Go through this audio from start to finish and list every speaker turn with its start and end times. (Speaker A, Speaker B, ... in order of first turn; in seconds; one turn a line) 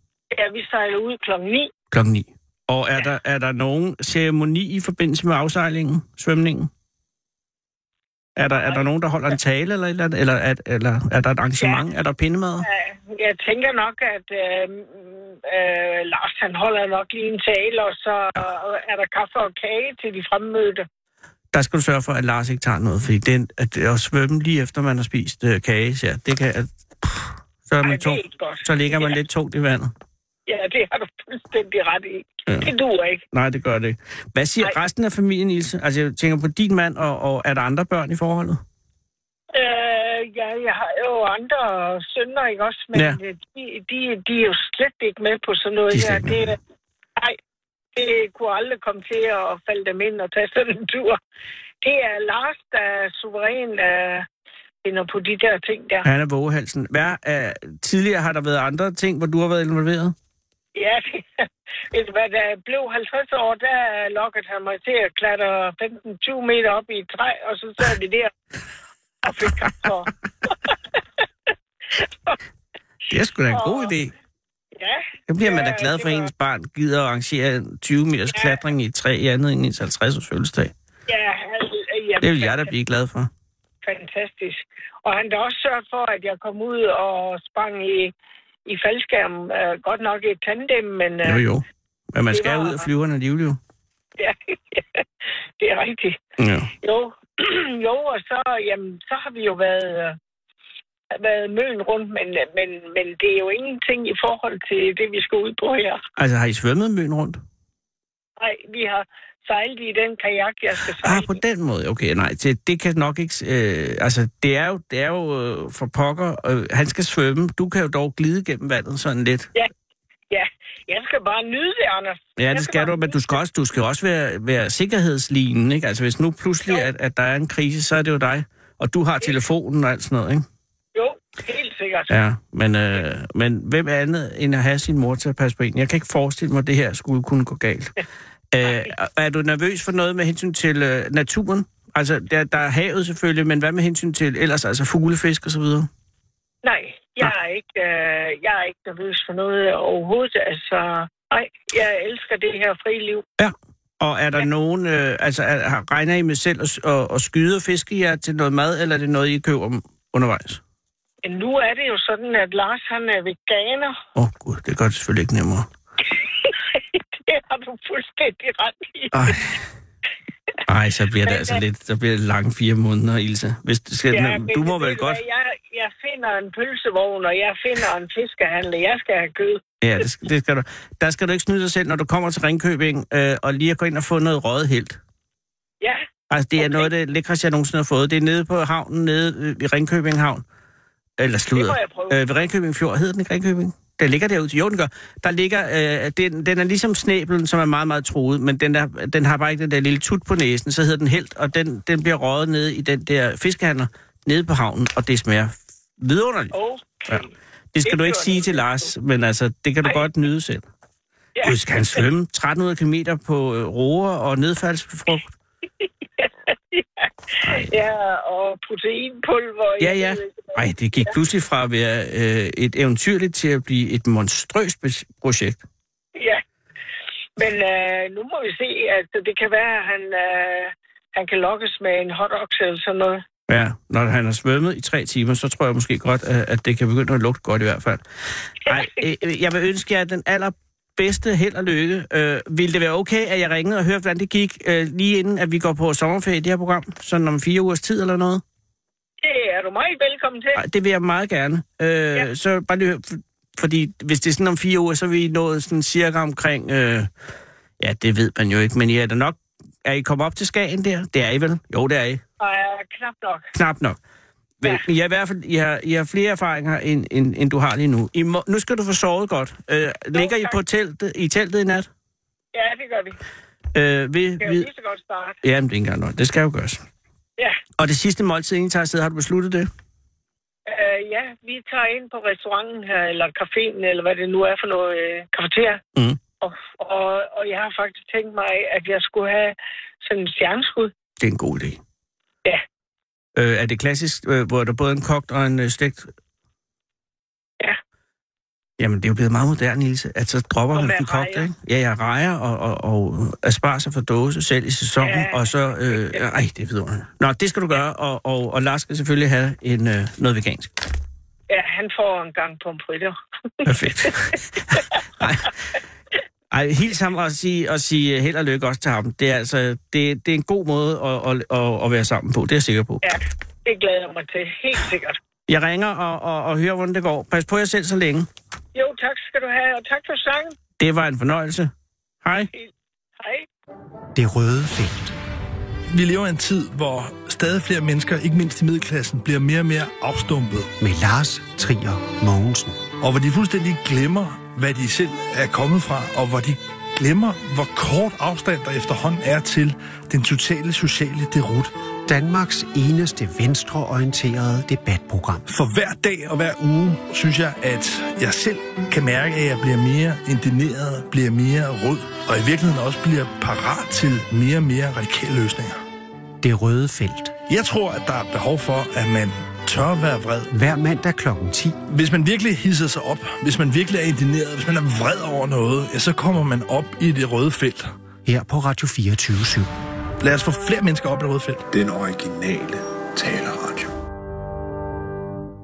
Speaker A: 0.3-1.7
Speaker B: 1.9-6.7
Speaker B: 8.4-12.7
Speaker A: 8.5-9.3
Speaker A: 12.6-20.9
Speaker B: 21.5-29.9
Speaker A: 27.8-29.2
Speaker A: 30.5-33.2
Speaker B: 33.3-38.6
Speaker A: 39.5-46.6
Speaker B: 45.9-46.5
Speaker A: 47.9-51.2
Speaker A: 51.8-54.3
Speaker A: 54.8-56.0
Speaker B: 56.0-60.1
Speaker A: 60.7-68.3
Speaker A: 69.2-72.4
Speaker B: 73.1-74.1
Speaker A: 73.5-73.9
Speaker A: 74.7-76.3
Speaker B: 75.3-80.7
Speaker A: 78.3-78.6
Speaker A: 81.1-82.7
Speaker B: 82.2-83.3
Speaker A: 83.8-88.1
Speaker A: 88.7-91.4
Speaker B: 91.2-93.6
Speaker A: 92.3-92.9
Speaker A: 94.2-95.0
Speaker A: 95.6-96.2
Speaker B: 96.4-96.7
Speaker A: 96.8-100.2
Speaker A: 101.1-106.0
Speaker B: 106.2-107.4
Speaker A: 108.4-111.4
Speaker B: 111.0-119.5
Speaker A: 120.3-123.4
Speaker B: 122.4-130.4
Speaker A: 130.9-132.1
Speaker B: 132.1-137.9
Speaker B: 138.5-145.9
Speaker A: 146.6-153.2
Speaker B: 153.4-160.6
Speaker A: 161.2-164.0
Speaker B: 164.2-165.7
Speaker A: 166.4-169.5
Speaker B: 169.1-169.5
Speaker B: 170.7-175.2
Speaker A: 171.2-171.6
Speaker A: 174.1-179.6
Speaker B: 179.8-185.0
Speaker A: 185.8-186.1
Speaker B: 186.3-190.4
Speaker A: 186.6-186.9
Speaker B: 191.2-206.5
Speaker A: 191.5-192.3
Speaker A: 206.5-207.3
Speaker B: 207.1-210.6
Speaker A: 207.8-208.9
Speaker A: 211.3-212.0
Speaker B: 211.4-215.3
Speaker A: 215.8-221.1
Speaker B: 217.4-217.7
Speaker B: 219.8-225.6
Speaker A: 226.2-226.4
Speaker A: 227.4-233.2
Speaker B: 233.5-238.0
Speaker B: 238.6-248.4
Speaker A: 238.7-238.9
Speaker A: 249.2-250.6
Speaker B: 250.6-257.1
Speaker B: 257.8-262.2
Speaker A: 262.4-263.5
Speaker B: 263.5-264.0
Speaker B: 264.6-271.9
Speaker A: 270.1-270.6
Speaker A: 272.5-273.2
Speaker B: 273.7-274.7
Speaker A: 274.4-275.4
Speaker B: 275.4-276.8
Speaker B: 277.8-279.7
Speaker A: 280.7-285.8
Speaker A: 286.4-290.9
Speaker B: 291.2-291.8
Speaker B: 293.4-296.1
Speaker B: 298.8-310.8
Speaker A: 300.7-301.5
Speaker A: 305.0-306.2
Speaker A: 311.5-315.2
Speaker B: 313.6-315.5
Speaker B: 316.5-323.0
Speaker A: 323.0-325.2
Speaker B: 325.5-328.3
Speaker A: 328.7-330.6
Speaker B: 330.8-331.7
Speaker B: 332.2-332.5
Speaker A: 332.5-333.5
Speaker C: 334.1-335.1
Speaker D: 335.9-340.7
Speaker C: 340.8-342.8
Speaker D: 343.0-351.7
Speaker C: 352.1-355.4
Speaker D: 355.5-365.8
Speaker C: 366.4-367.3
Speaker D: 367.5-370.5
Speaker C: 370.5-371.8
Speaker D: 371.9-377.9
Speaker C: 378.2-379.7
Speaker D: 380.2-381.7
Speaker E: 381.7-383.9